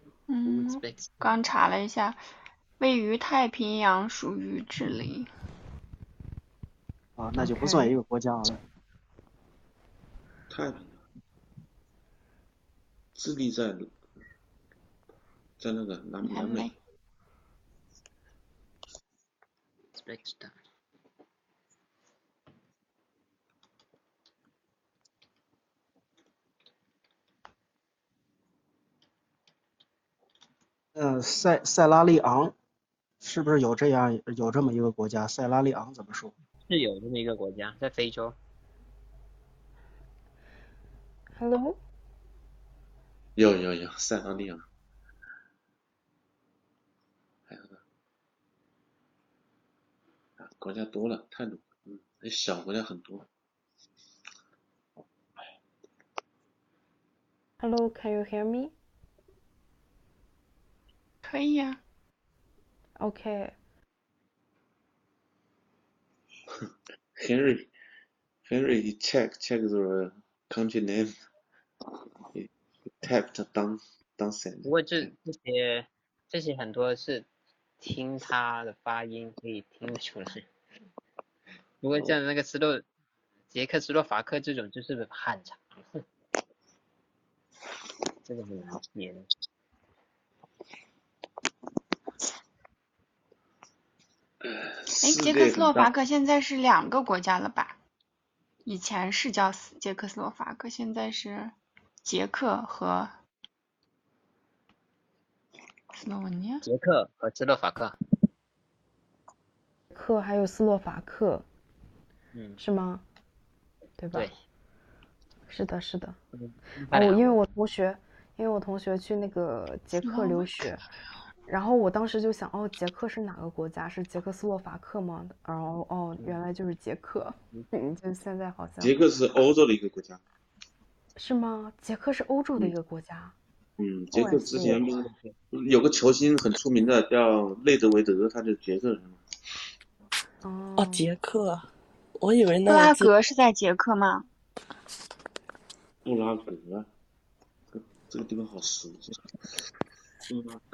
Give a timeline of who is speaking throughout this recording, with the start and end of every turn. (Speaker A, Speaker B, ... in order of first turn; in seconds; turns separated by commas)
Speaker A: 0.3-2.2, Speaker B: 0.5-1.3, Speaker A: 2.8-5.3, Speaker C: 7.2-8.6, Speaker D: 7.4-7.9, Speaker E: 10.5-11.0, Speaker E: 13.2-13.9, Speaker E: 15.6-16.7, Speaker A: 16.2-16.8, Speaker B: 19.9-20.5, Speaker C: 30.9-32.5, Speaker C: 33.2-36.3, Speaker B: 36.7-38.4, Speaker D: 41.4-41.8, Speaker E: 43.4-44.6, Speaker E: 47.5-47.8, Speaker E: 50.4-53.3, Speaker D: 57.6-58.8, Speaker A: 61.2-61.8, Speaker D: 63.0-63.6, Speaker E: 67.2-67.7, Speaker E: 68.5-71.1, Speaker E: 73.0-75.1, Speaker B: 74.7-77.3, Speaker B: 77.8-80.5, Speaker B: 81.8-82.8, Speaker B: 83.5-85.9, Speaker B: 88.3-89.3, Speaker E: 94.4-95.9, Speaker A: 95.0-97.8, Speaker A: 98.7-103.1, Speaker A: 106.0-106.7, Speaker B: 106.7-108.0, Speaker D: 109.9-111.5, Speaker D: 112.6-113.0, Speaker D: 114.0-114.3, Speaker D: 115.5-116.2, Speaker B: 116.3-117.3, Speaker D: 116.9-120.8, Speaker A: 120.0-120.7, Speaker D: 121.5-129.0, Speaker E: 128.8-130.2, Speaker D: 131.2-133.4, Speaker E: 133.8-139.2, Speaker D: 134.1-134.8, Speaker B: 134.6-135.3, Speaker D: 140.4-141.1, Speaker F: 140.8-143.1, Speaker A: 142.7-144.3, Speaker E: 146.1-146.9, Speaker E: 147.7-149.1, Speaker E: 150.3-150.6